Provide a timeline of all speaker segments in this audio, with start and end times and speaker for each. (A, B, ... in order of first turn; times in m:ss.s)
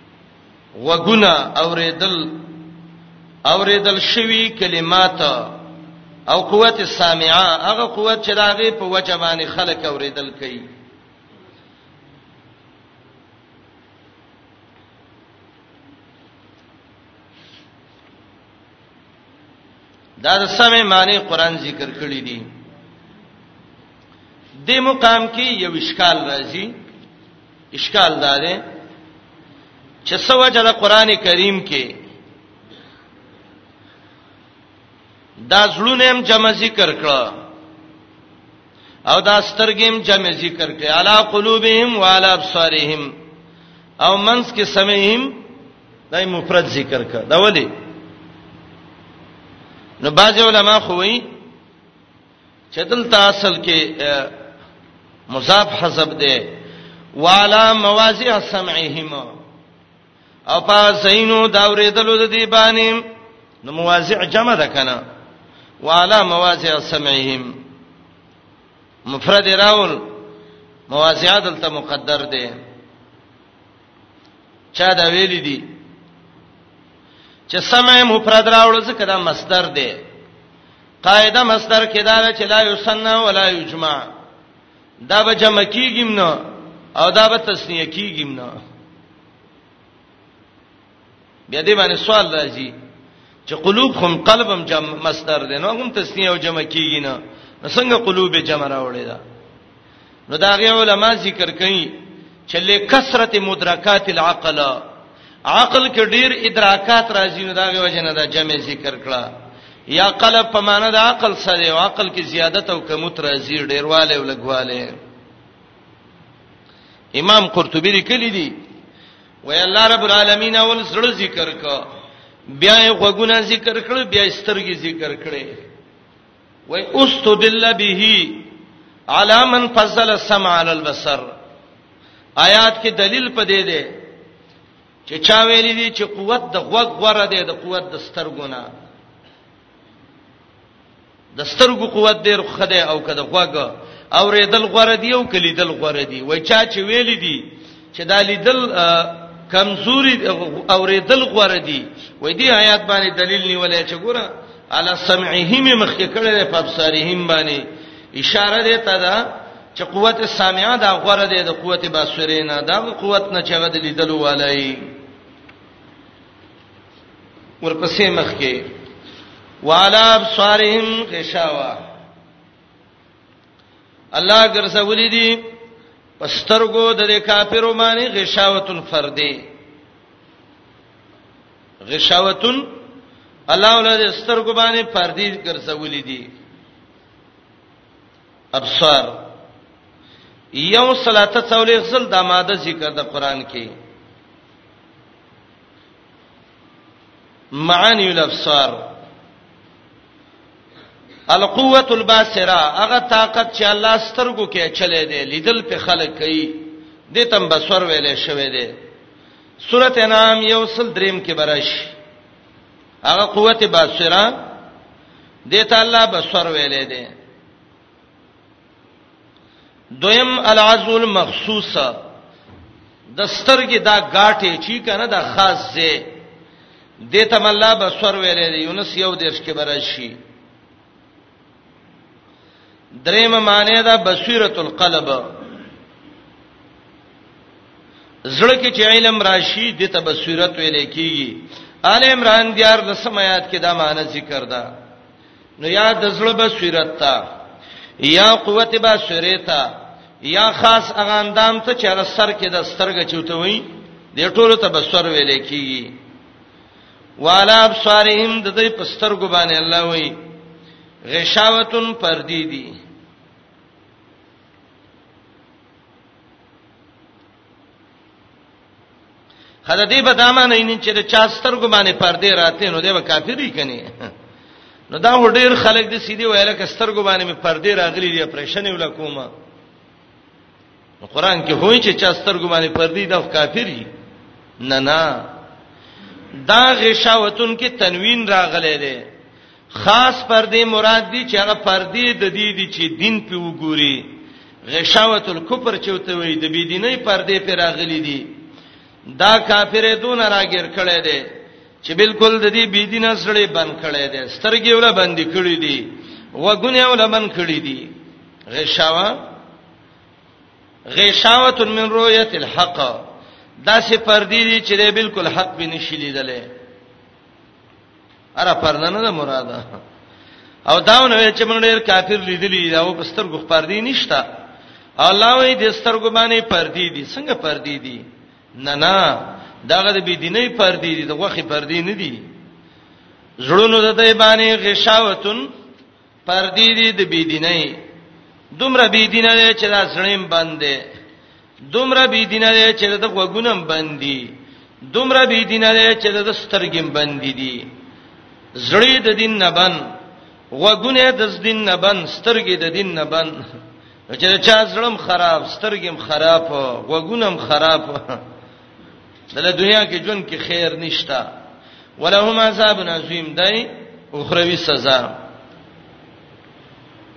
0:00.8-0:02.5 A
0:03.5-0:05.6 A
0:06.3-0:10.6 A
0:20.2-0:22.5 A
0:24.6-0:26.7 A
0:27.7-0:28.6 A
0:30.0-0:31.9 A
0:35.5-0:37.4 A
0:39.1-0:43.1 A
0:44.0-0:45.4 A
0:46.1-0:47.7 A
0:50.0-0:51.2 A
0:52.7-0:54.4 A
0:55.3-0:56.5 A
0:57.2-0:59.3 A
1:00.5-1:03.0 A
1:03.6-1:05.0 A
1:05.8-1:07.5 A
1:09.1-1:10.1 A
1:10.9-1:12.5 A
1:14.7-1:15.6 A
1:17.5-1:20.0 A
1:21.0-1:24.1 A
1:25.0-1:26.4 A
1:27.0-1:28.5 A
1:31.5-1:32.7 A
1:33.5-1:39.2 A
1:40.3-1:41.9 A
1:42.5-1:44.8 A
1:45.5-1:49.3 A
1:49.9-1:54.9 A
1:57.1-1:58.5 A
1:59.4-2:01.8 A
2:02.6-2:05.5 A
2:06.7-2:08.5 A
2:09.1-2:11.2 A
2:12.4-2:13.9 A
2:15.1-2:18.6 A
2:21.4-2:39.2 A
2:39.7-2:44.8 A
2:47.6-2:48.6 A
2:49.6-2:51.8 A
2:54.1-2:55.4 A
2:56.2-2:59.4 A
3:01.8-3:02.7 A
3:03.5-3:06.2 A
3:08.5-3:09.2 A
3:10.5-3:13.7 A
3:17.5-3:18.8 A
3:21.3-3:28.7 A
3:29.6-3:31.9 A
3:33.0-3:34.3 A
3:35.5-3:37.1 A
3:40.0-3:42.0 A
3:43.1-3:46.1 A
3:47.1-3:50.1 A
3:53.0-3:55.3 A
3:58.3-4:04.7 A
4:05.6-4:07.2 A
4:08.0-4:09.7 A
4:10.2-4:15.9 A
4:17.2-4:20.2 A
4:21.1-4:22.7 A
4:29.6-4:34.1 A
4:34.9-4:39.3 A
4:41.0-4:43.9 A
4:44.6-4:45.3 A
4:46.4-4:49.0 A
4:49.7-4:54.1 A
4:54.7-4:58.3 A
4:59.2-5:01.2 A
5:01.8-5:07.9 A
5:08.5-5:09.2 A
5:10.9-5:13.0 A
5:13.6-5:16.5 A
5:18.4-5:19.6 A
5:20.7-5:24.2 A
5:25.0-5:28.0 A
5:28.6-5:32.3 A
5:33.4-5:35.5 A
5:36.2-5:37.8 A
5:38.5-5:40.8 A
5:41.7-5:44.3 A
5:44.9-5:47.7 A
5:48.6-5:49.8 A
5:50.5-5:53.4 A
5:54.1-5:58.2 A
5:59.3-6:01.3 A
6:02.0-6:05.1 A